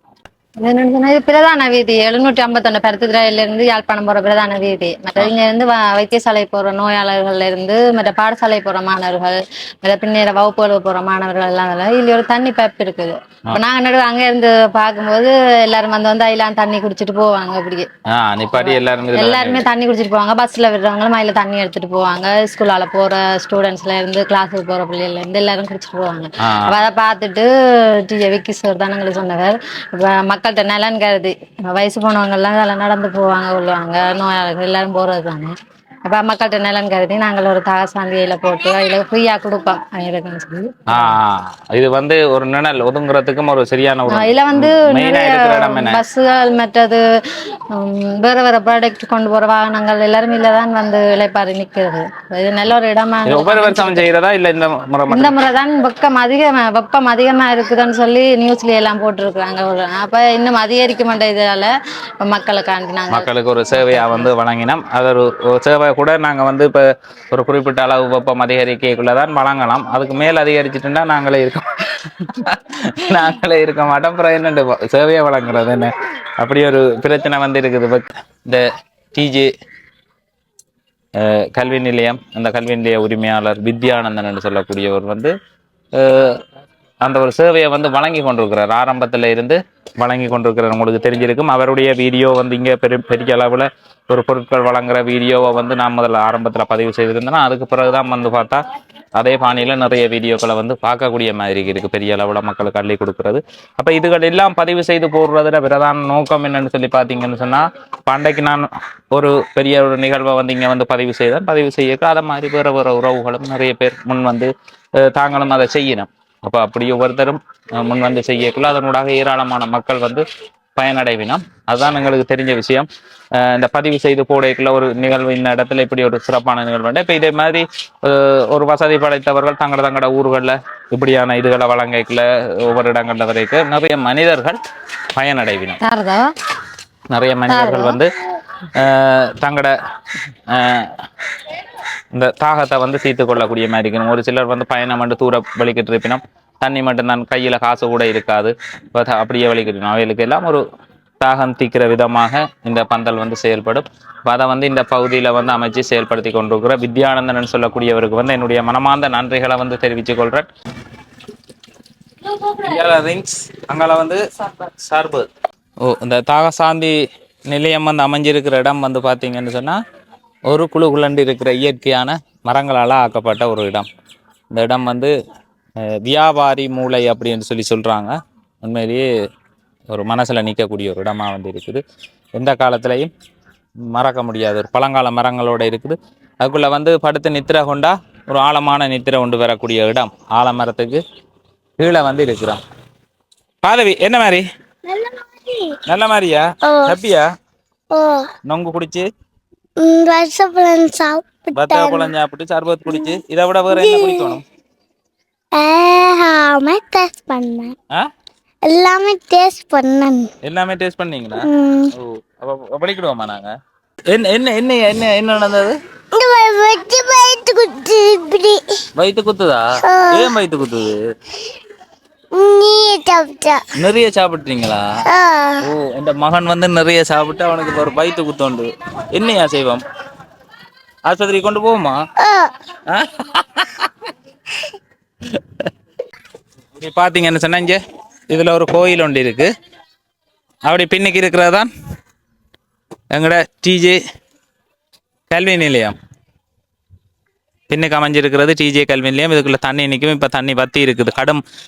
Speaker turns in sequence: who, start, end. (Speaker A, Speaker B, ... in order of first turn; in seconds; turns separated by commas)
Speaker A: 0.6-17.9, Speaker B: 18.1-19.7, Speaker A: 18.6-27.5, Speaker B: 26.5-26.8, Speaker A: 28.1-35.5, Speaker A: 36.1-41.1, Speaker B: 40.9-46.0, Speaker A: 44.1-54.1, Speaker B: 53.2-55.4, Speaker A: 55.1-64.3, Speaker B: 63.1-79.5, Speaker B: 81.2-85.3, Speaker B: 85.9-86.4, Speaker B: 87.0-98.6, Speaker B: 99.2-120.2, Speaker B: 120.8-134.6, Speaker B: 135.2-135.8, Speaker A: 135.8-136.3, Speaker B: 137.1-138.1, Speaker A: 137.5-138.0, Speaker B: 138.8-139.7, Speaker B: 140.5-140.9, Speaker B: 142.1-150.6, Speaker B: 151.2-160.5, Speaker B: 162.3-165.3, Speaker B: 165.8-166.9, Speaker B: 167.5-169.8, Speaker B: 170.5-173.9, Speaker B: 174.5-175.1, Speaker B: 176.0-179.1, Speaker B: 179.9-181.8, Speaker B: 182.4-183.1, Speaker B: 183.9-191.0, Speaker B: 191.8-192.6, Speaker B: 193.6-194.5, Speaker C: 194.9-195.8, Speaker B: 195.9-197.3, Speaker C: 196.7-196.9, Speaker C: 197.9-198.3, Speaker B: 198.5-199.1, Speaker C: 199.8-202.1, Speaker B: 201.6-204.4, Speaker C: 203.7-204.4, Speaker C: 205.6-207.8, Speaker C: 208.7-210.3, Speaker B: 210.4-213.5, Speaker C: 211.4-211.9, Speaker B: 214.1-215.8, Speaker C: 216.1-218.6, Speaker B: 218.9-221.0, Speaker C: 219.8-220.3, Speaker C: 222.3-223.6, Speaker B: 223.8-224.8, Speaker C: 225.1-225.7, Speaker B: 225.6-229.8, Speaker B: 231.1-232.0, Speaker C: 232.2-232.5, Speaker B: 232.9-233.9, Speaker B: 235.4-235.7, Speaker B: 236.8-239.5, Speaker B: 240.6-241.7, Speaker B: 243.1-244.0, Speaker B: 245.3-245.9, Speaker B: 247.7-251.4